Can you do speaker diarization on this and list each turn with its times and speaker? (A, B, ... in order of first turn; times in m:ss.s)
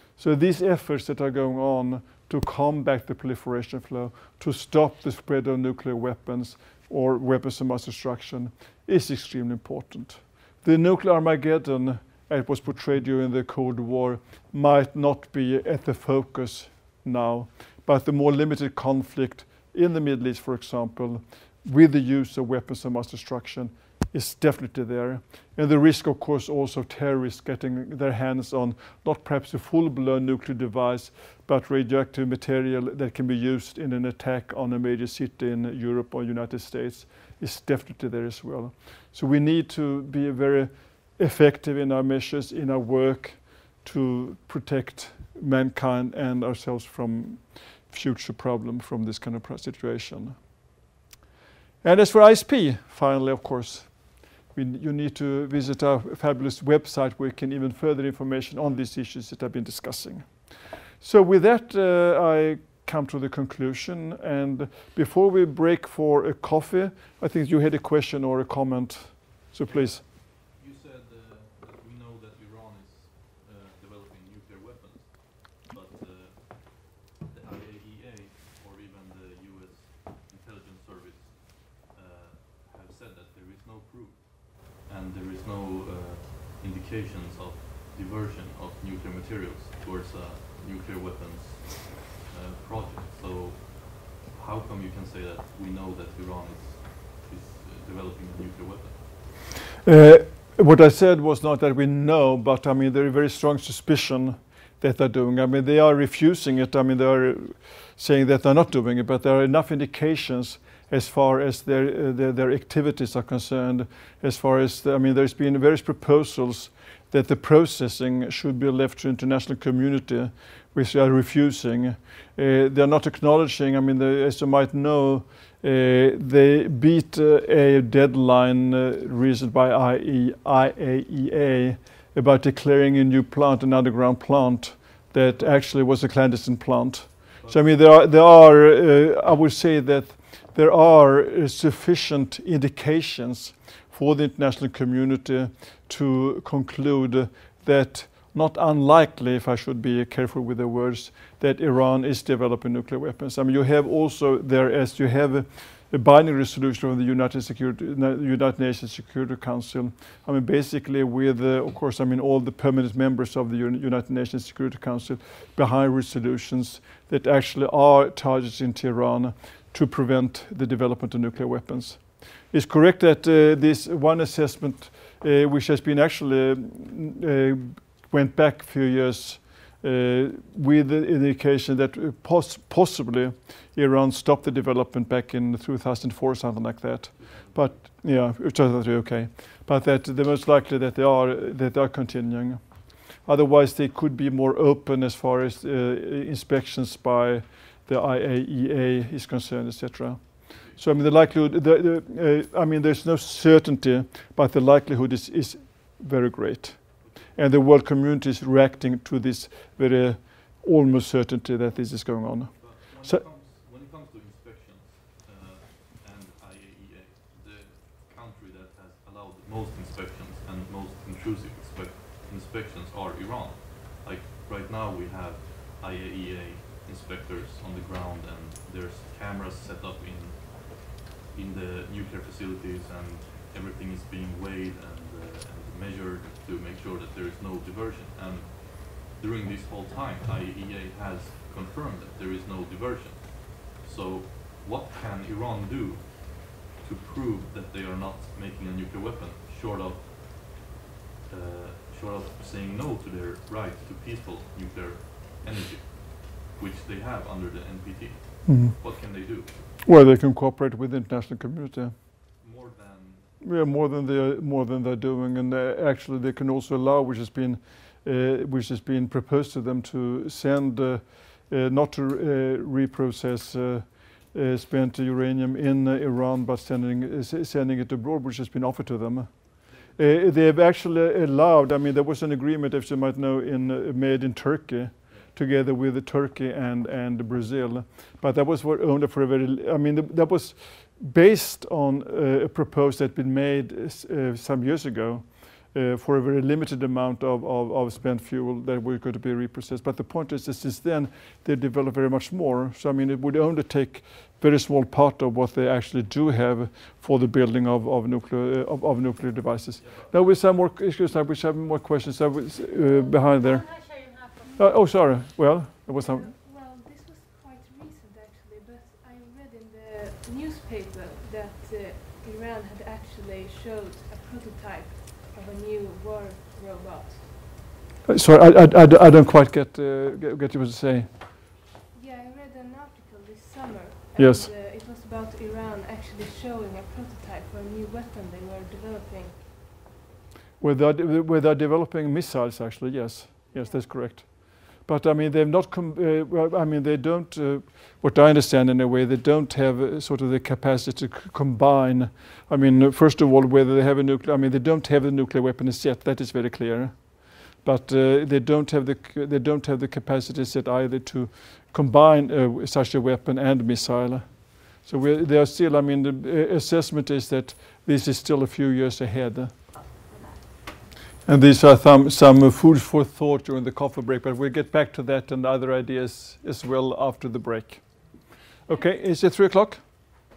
0:00.2-0:50.6 A
0:51.8-1:10.0 A
1:09.6-1:39.4 B
1:39.8-3:33.2 A
2:17.4-2:17.7 B
3:07.1-3:07.9 B
3:20.5-3:20.8 B
3:27.0-3:27.4 B
3:32.5-4:10.7 B
4:11.3-4:19.8 B
4:18.4-4:18.8 A
4:19.8-4:21.9 A
4:22.4-4:23.3 B
4:23.4-5:16.3 A
4:39.6-4:40.2 B
5:09.8-5:10.4 B
5:13.7-5:14.8 C
5:15.9-5:27.3 C
5:28.0-5:31.1 A
5:31.9-5:39.4 C
5:34.2-5:34.5 A
5:40.6-6:09.6 A
5:43.6-5:43.8 C
6:10.0-6:10.4 C
6:11.2-6:18.1 A
6:18.6-6:19.8 A
6:18.7-6:18.9 C